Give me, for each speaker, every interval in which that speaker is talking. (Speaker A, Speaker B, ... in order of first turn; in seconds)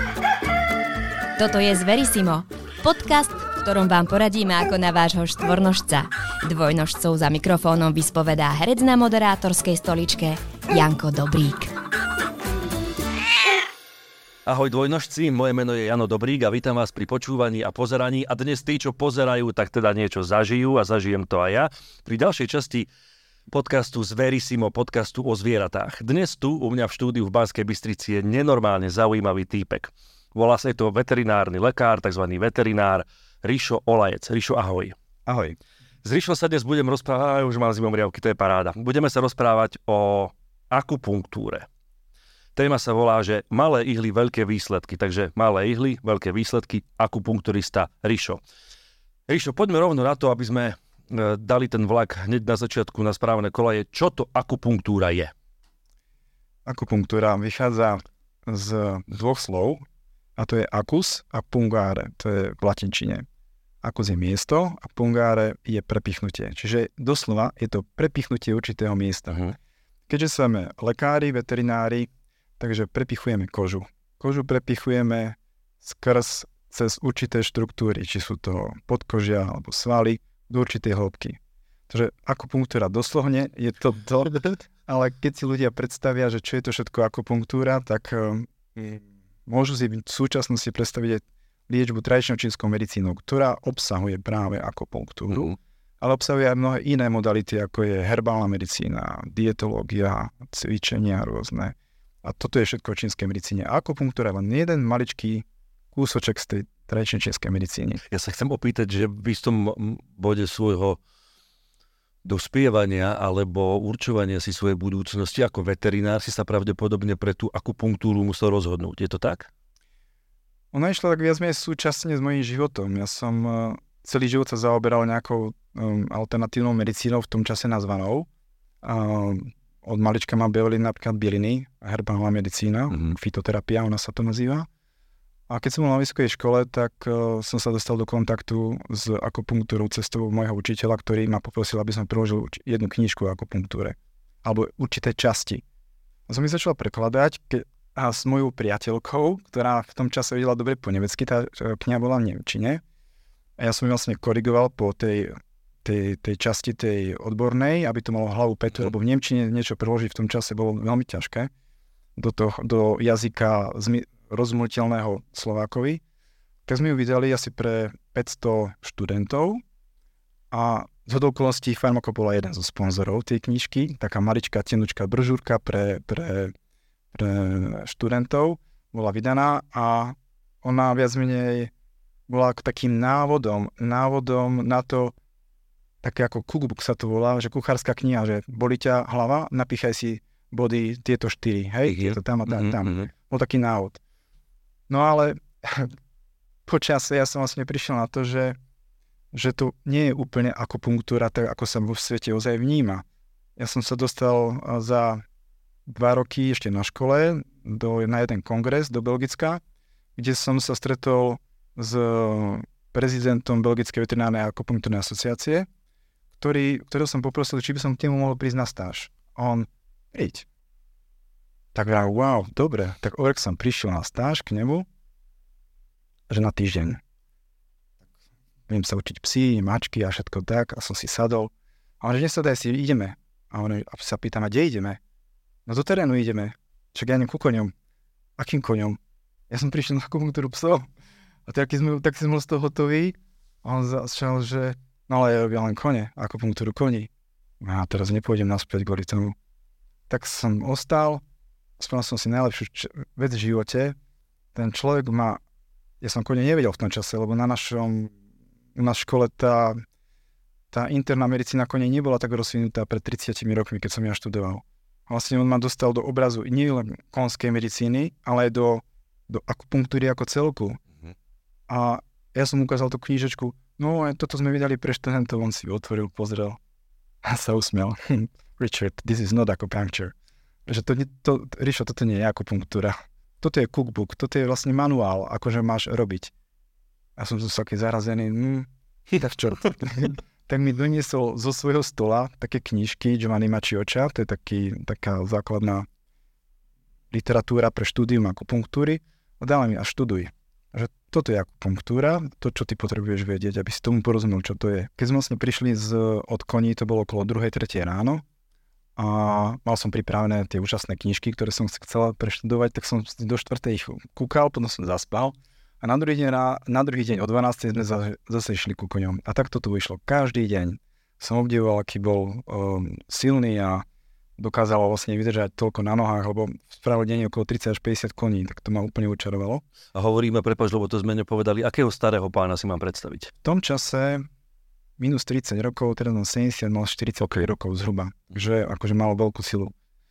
Speaker A: 1.4-11.7
Speaker B: 14.5-22.9, 23.5-35.0, 36.0-41.7, 42.6-48.4, 49.3-55.3, 108.1-111.0, 112.2-119.5, 132.9-133.2, 191.9-193.1, 329.9-333.3
Speaker C: 35.3-35.6, 56.7-59.8, 60.4-63.3, 63.8-69.5, 70.1-108.0, 120.7-128.3, 128.8-134.7, 135.5-145.6, 146.3-152.8, 153.6-161.5, 162.2-166.0, 166.7-169.6, 170.5-176.5, 177.1-181.7, 182.3-185.2, 186.0-194.0, 194.9-195.9, 196.7-198.6, 199.3-203.0, 203.6-205.2, 205.9-209.6, 210.2-215.7, 216.4-220.5, 221.7-224.9, 226.3-227.0, 228.7-235.0, 235.7-237.7, 238.4-239.0, 239.5-240.9, 241.5-247.1, 247.6-249.4, 250.1-251.2, 251.8-254.0, 254.5-255.4, 256.0-258.1, 258.8-259.8, 260.7-270.8, 271.7-276.6, 277.2-280.1, 280.7-286.3, 287.2-295.9, 297.1-308.2, 309.0-323.9, 324.4-329.6, 333.4-334.3, 335.0-339.7